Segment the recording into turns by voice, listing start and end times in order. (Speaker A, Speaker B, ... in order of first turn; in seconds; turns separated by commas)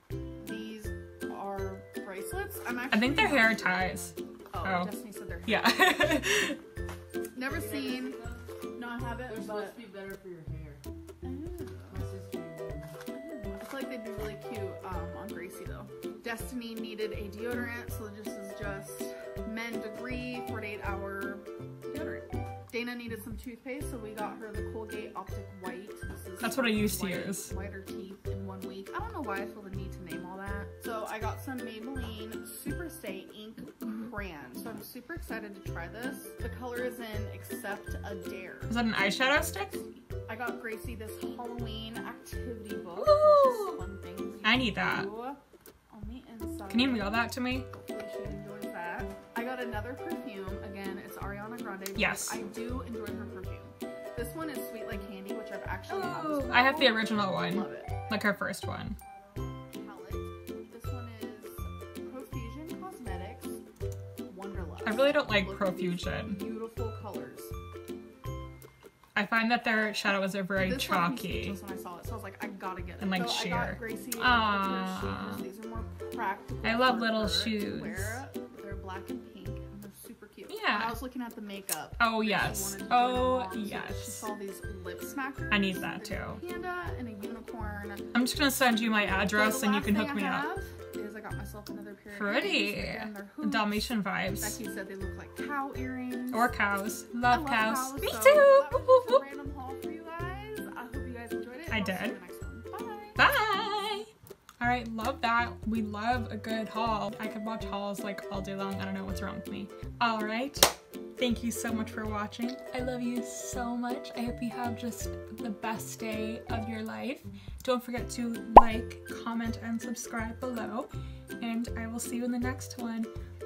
Speaker A: 0.4-6.5, Speaker B: 2.9-4.9, Speaker B: 5.5-6.6, Speaker A: 7.3-8.2, Speaker C: 7.5-8.4, Speaker A: 8.8-9.8, Speaker C: 9.3-10.8, Speaker A: 11.2-12.1, Speaker C: 11.9-12.9, Speaker A: 13.1-58.0, Speaker B: 26.4-27.5, Speaker B: 38.7-39.8, Speaker B: 43.0-43.8, Speaker B: 44.4-45.1, Speaker B: 46.7-47.7, Speaker B: 52.0-52.4, Speaker B: 55.9-59.0, Speaker A: 59.0-63.6, Speaker A: 64.3-67.5, Speaker B: 64.8-66.4, Speaker B: 69.2-71.6, Speaker A: 69.7-70.0, Speaker A: 70.6-88.1, Speaker B: 73.0-75.4, Speaker B: 76.6-78.2, Speaker B: 80.5-81.0, Speaker B: 82.0-84.3, Speaker B: 85.5-86.4, Speaker B: 88.1-90.5, Speaker A: 88.9-96.5, Speaker B: 92.1-94.6, Speaker B: 96.3-99.2, Speaker A: 97.3-103.2, Speaker B: 101.7-102.2, Speaker B: 103.2-123.1